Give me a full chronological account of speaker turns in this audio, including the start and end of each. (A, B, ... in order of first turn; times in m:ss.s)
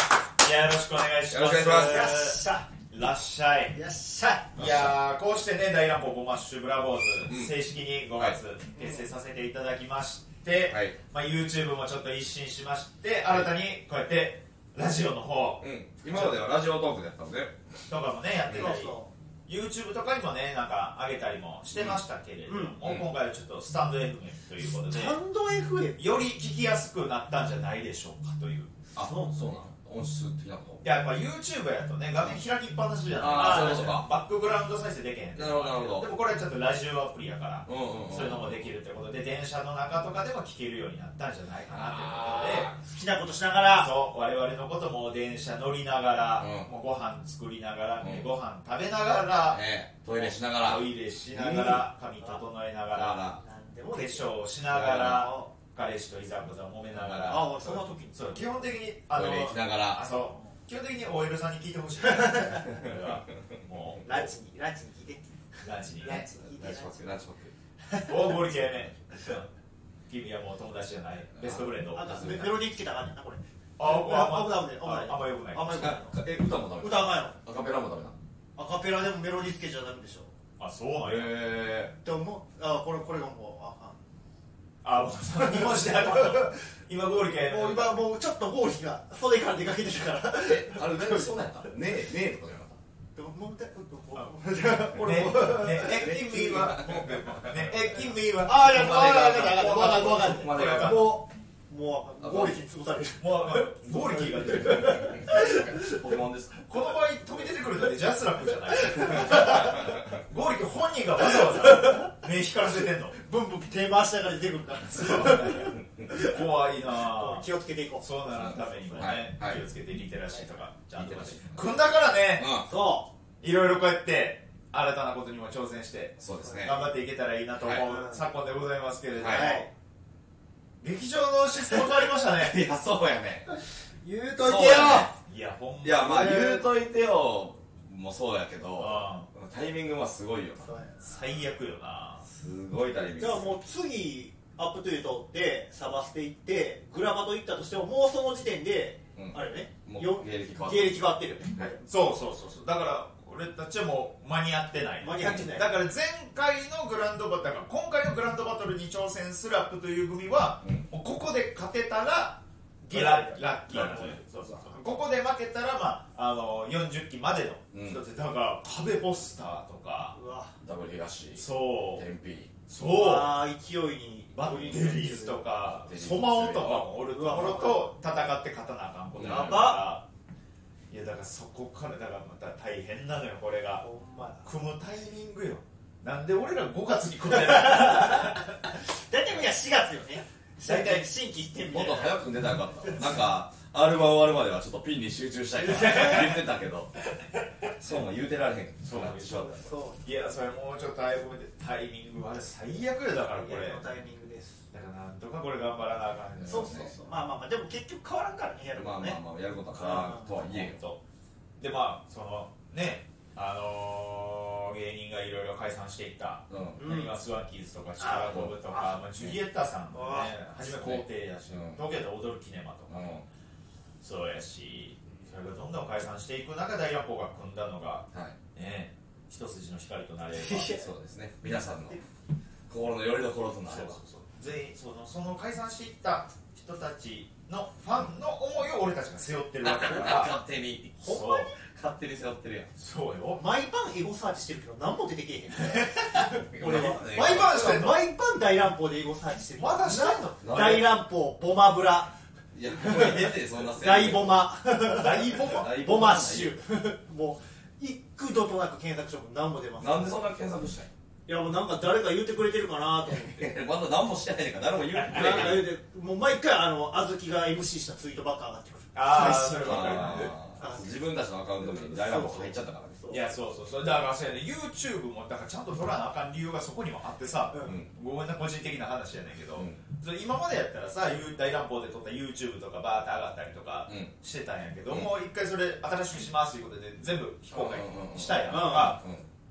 0:00.4-0:03.8 A
0:01.3-0:02.1 B
0:01.7-0:02.7 C
0:03.7-0:04.6 C
0:04.5-0:16.3 A
0:04.6-0:05.0 B
0:07.3-0:07.5 B
0:08.8-0:09.0 C
0:10.7-0:11.0 B
0:15.6-0:17.7 B
0:17.9-0:25.2 A
0:18.4-0:18.8 B
0:18.5-0:19.1 C
0:21.7-0:22.0 B
0:22.5-0:22.8 C
0:22.8-0:23.1 B
0:24.8-0:26.0 C
0:26.0-0:28.7 A
0:29.0-0:30.9 B
0:29.0-0:29.6 C
0:30.8-0:42.7 A
0:33.1-0:34.1 B
0:33.3-0:34.0 C
0:35.3-0:36.1 B
0:37.7-0:38.7 B
0:41.7-0:42.7 B
0:42.7-0:44.0 C
0:43.8-0:53.2 A
0:46.4-0:46.7 B
0:48.0-0:48.3 B
0:49.4-0:51.9 B
0:52.2-0:52.4 C
0:52.9-0:53.4 B
0:53.3-0:55.5 C
0:53.9-1:04.3 A
0:54.7-0:55.3 B
0:56.9-0:57.4 B
0:57.2-0:58.6 C
0:59.1-1:00.0 B
1:00.1-1:00.5 C
1:02.2-1:02.6 C
1:04.0-1:05.2 C
1:05.6-1:06.2 A
1:06.0-1:07.1 C
1:06.1-1:07.5 B
1:07.9-1:08.3 C
1:08.0-1:09.5 A
1:10.1-1:12.1 A
1:11.4-1:12.6 B
1:11.8-1:16.2 C
1:13.8-1:16.0 A
1:15.8-1:18.2 B
1:16.8-1:17.4 C
1:18.6-1:20.3 C
1:20.6-1:21.3 A
1:21.0-1:21.9 B
1:22.0-1:24.0 C
1:24.8-1:28.0 A
1:25.4-1:26.5 C
1:27.4-1:31.4 C
1:30.4-1:32.8 B
1:33.2-1:37.1 C
1:34.8-1:41.2 A
1:36.9-1:37.4 B
1:38.4-1:46.0 C
1:38.7-1:41.2 B
1:42.2-1:42.6 B
1:43.2-1:45.2 A
1:45.1-1:46.6 B
1:46.7-1:53.1 A
1:48.8-1:49.8 C
1:49.8-1:50.0 B
1:51.5-1:52.1 C
1:53.2-1:59.1 C
1:54.9-1:57.5 A
1:58.0-2:02.5 A
1:58.4-1:59.6 B
2:00.9-2:02.7 B
2:02.6-2:03.1 C
2:03.4-2:09.7 A
2:06.2-2:06.9 B
2:06.4-2:06.7 C
2:07.6-2:07.8 B
2:07.8-2:08.2 C
2:09.2-2:09.5 B
2:09.3-2:09.7 C
2:10.8-2:12.6 A
2:12.3-2:13.6 B
2:13.5-2:15.1 C
2:14.4-2:15.2 B
2:15.2-2:16.2 A
2:15.8-2:20.7 B
2:16.0-2:16.7 C
2:18.8-2:19.3 A
2:20.6-2:21.1 C
2:21.0-2:22.2 A
2:22.2-2:23.6 B
2:23.2-2:31.8 C
2:29.2-2:31.0 B
2:31.8-2:50.2 A
2:35.0-2:35.7 C
2:35.2-2:35.5 B
2:42.8-2:45.0 C
2:47.7-2:48.0 B
2:50.1-2:50.6 C
2:50.6-2:52.5 B
2:51.4-2:52.1 A
2:52.7-2:53.4 A
2:52.8-2:55.4 C
2:54.3-3:00.0 A
2:55.7-2:56.9 B
2:57.1-2:57.9 C
2:59.2-2:59.8 B
2:59.2-2:59.9 C
3:00.9-3:03.8 A
3:03.8-3:04.5 C
3:04.4-3:08.6 A
3:07.5-3:12.3 C
3:10.6-3:11.1 A
3:11.7-3:16.9 B
3:12.8-3:13.1 C
3:15.6-3:16.3 C
3:15.7-3:16.4 A
3:17.8-3:19.7 B
3:18.8-3:23.8 A
3:19.4-3:20.0 C
3:23.3-3:24.6 C
3:24.7-3:26.9 A
3:26.4-3:26.9 B
3:26.5-3:29.2 C
3:28.7-3:30.8 B
3:29.8-3:30.3 C
3:29.9-3:31.0 A
3:31.6-3:43.2 A
3:36.5-3:36.8 B
3:36.8-3:37.1 C
3:38.0-3:39.0 C
3:38.3-3:38.6 B
3:39.9-3:40.3 C
3:40.7-3:41.8 B
3:42.9-3:43.2 B
3:44.0-3:50.8 A
3:50.3-3:50.9 C
3:50.7-3:52.0 B
3:52.7-3:54.0 B
3:53.6-4:00.4 A
3:59.6-4:02.7 B
4:01.0-4:01.5 C
4:01.0-4:01.5 A
4:02.8-4:03.4 A
4:03.3-4:12.1 C
4:06.3-4:07.7 B
4:06.7-4:08.0 A
4:09.6-4:10.4 A
4:10.4-4:11.0 B
4:12.5-4:14.5 B
4:12.7-4:20.2 C
4:14.8-4:15.8 A
4:15.4-4:16.6 B
4:19.8-4:20.9 B
4:21.3-4:23.5 C
4:23.1-4:25.7 B
4:25.1-4:31.0 C
4:28.9-4:30.3 A
4:29.6-4:33.0 B
4:31.6-4:33.2 C
4:33.1-4:49.0 A
4:37.5-4:37.8 C
4:37.6-4:37.9 B
4:47.5-4:49.2 B
4:48.4-4:49.0 C